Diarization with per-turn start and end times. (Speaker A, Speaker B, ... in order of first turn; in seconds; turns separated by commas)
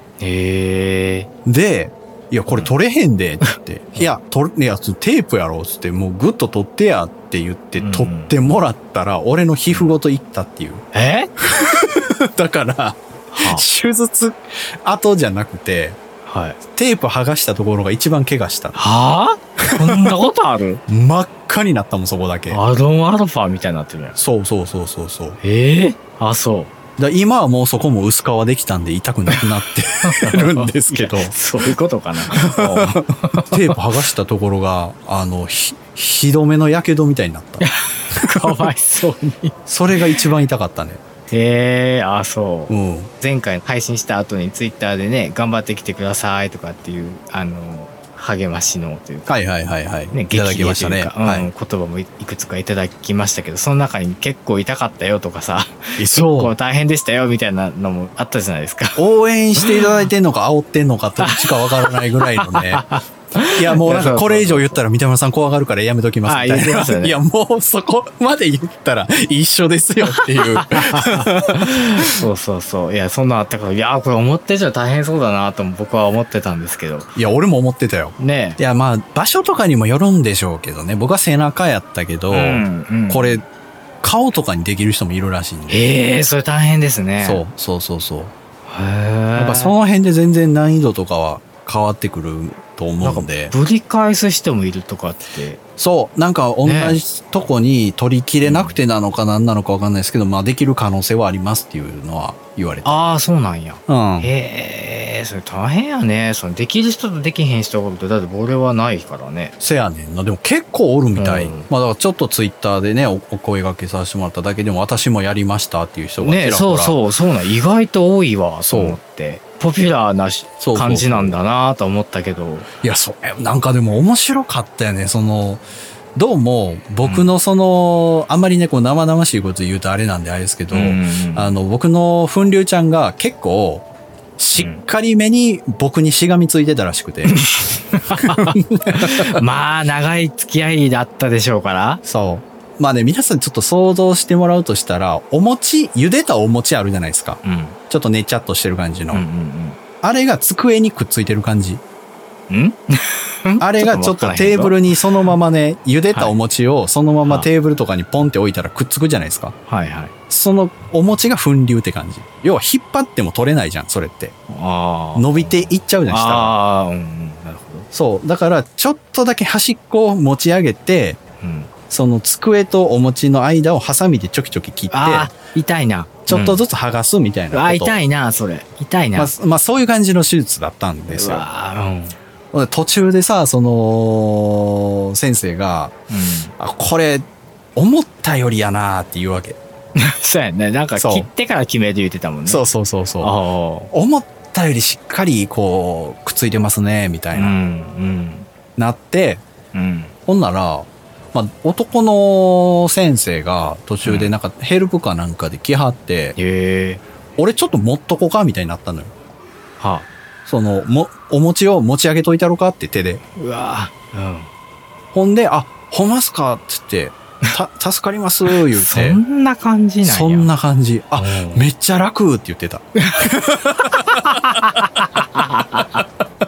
Speaker A: 0.2-1.3, Speaker B: 1.4-10.8, Speaker A: 2.5-2.7, Speaker A: 3.4-4.1, Speaker A: 7.8-8.3, Speaker A: 10.9-11.3, Speaker B: 11.4-16.0, Speaker A: 13.3-13.7, Speaker A: 16.2-16.6, Speaker B: 16.7-18.8, Speaker A: 18.7-20.8, Speaker B: 19.6-20.1, Speaker B: 20.9-22.6, Speaker A: 22.5-24.2, Speaker B: 24.1-25.4, Speaker A: 25.4-26.7, Speaker B: 27.0-31.4, Speaker A: 30.0-33.6, Speaker B: 32.3-37.7, Speaker A: 37.6-40.2, Speaker B: 38.2-38.6, Speaker B: 39.7-41.0, Speaker A: 41.3-49.3, Speaker B: 42.7-43.1, Speaker B: 49.3-51.5, Speaker A: 50.1-59.0, Speaker B: 56.0-56.5, Speaker B: 59.0-62.9, Speaker A: 59.6-59.8, Speaker A: 61.2-64.8, Speaker B: 63.5-72.2, Speaker A: 66.2-67.2, Speaker A: 70.1-77.1, Speaker B: 77.2-83.4, Speaker A: 78.2-78.6, Speaker A: 82.3-83.4, Speaker B: 84.0-85.8, Speaker A: 85.7-87.4, Speaker B: 87.2-88.3, Speaker A: 88.7-89.7, Speaker B: 89.3-93.5, Speaker A: 93.0-95.6, Speaker B: 95.8-103.0, Speaker A: 96.6-97.0, Speaker A: 98.4-98.8, Speaker A: 102.8-109.5, Speaker B: 103.9-104.3, Speaker B: 109.6-117.0, Speaker A: 111.1-111.7, Speaker A: 116.2-122.7, Speaker B: 118.7-119.0, Speaker B: 120.6-121.4, Speaker B: 122.8-125.6, Speaker B: 126.1-133.9, Speaker A: 127.0-127.3, Speaker A: 130.7-131.6, Speaker B: 134.4-137.4, Speaker A: 134.6-134.8, Speaker A: 137.3-142.0, Speaker B: 138.1-139.4, Speaker B: 142.0-149.2, Speaker A: 147.4-147.8, Speaker A: 149.1-149.8, Speaker B: 150.0-151.8, Speaker A: 152.5-155.3, Speaker B: 153.6-159.5, Speaker A: 157.2-157.5, Speaker A: 159.7-160.1, Speaker B: 160.3-164.3, Speaker A: 164.5-167.9, Speaker B: 165.2-166.6, Speaker B: 167.9-171.2, Speaker A: 171.4-171.7, Speaker B: 171.9-175.3, Speaker A: 174.9-176.6, Speaker B: 176.3-178.0, Speaker A: 177.5-179.3, Speaker B: 179.1-181.4, Speaker A: 181.1-182.2, Speaker B: 182.5-185.9, Speaker A: 186.1-186.5, Speaker B: 186.6-189.6, Speaker A: 189.9-192.6, Speaker B: 191.0-191.3, Speaker B: 192.5-193.4, Speaker A: 193.2-193.9, Speaker B: 193.9-197.5, Speaker A: 197.3-198.5, Speaker B: 198.8-199.4, Speaker A: 199.7-200.1, Speaker B: 200.2-206.4, Speaker A: 204.0-204.3, Speaker A: 206.3-207.0, Speaker B: 207.4-209.1, Speaker A: 209.8-210.1, Speaker B: 210.4-213.2, Speaker A: 213.3-214.5, Speaker B: 215.1-219.2, Speaker A: 218.5-220.5, Speaker B: 220.0-224.4, Speaker A: 221.2-221.7, Speaker A: 223.0-226.0